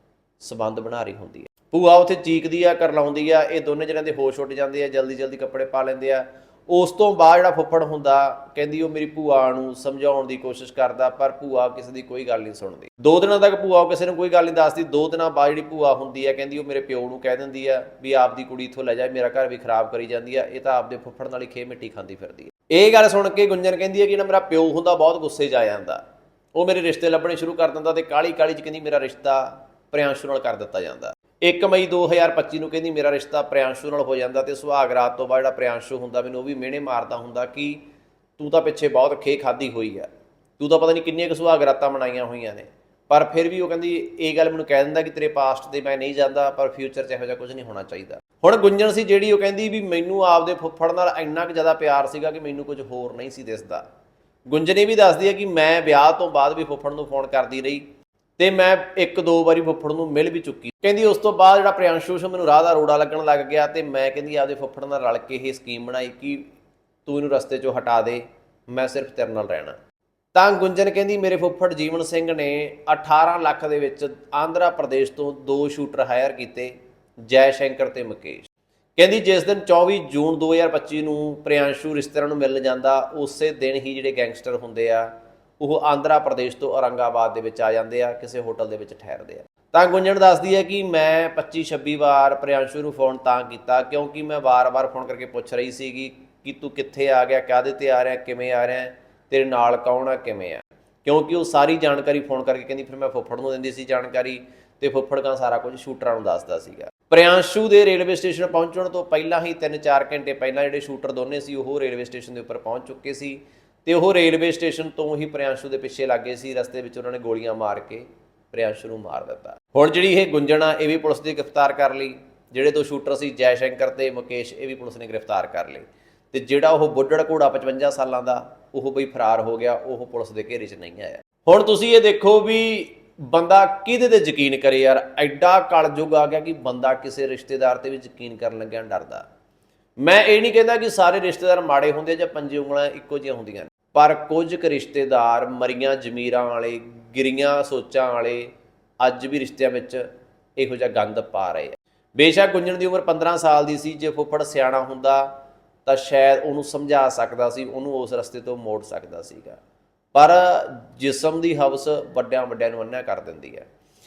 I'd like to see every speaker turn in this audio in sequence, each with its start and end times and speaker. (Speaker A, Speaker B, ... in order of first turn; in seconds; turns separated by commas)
Speaker A: 0.4-26.0, Speaker A: 26.5-37.8, Speaker A: 38.4-40.1, Speaker A: 40.6-53.8, Speaker A: 54.5-57.8, Speaker A: 58.4-66.5, Speaker A: 67.0-69.8, Speaker A: 70.3-139.2, Speaker A: 140.0-150.0, Speaker A: 150.6-155.3, Speaker A: 155.8-159.6, Speaker A: 160.1-163.7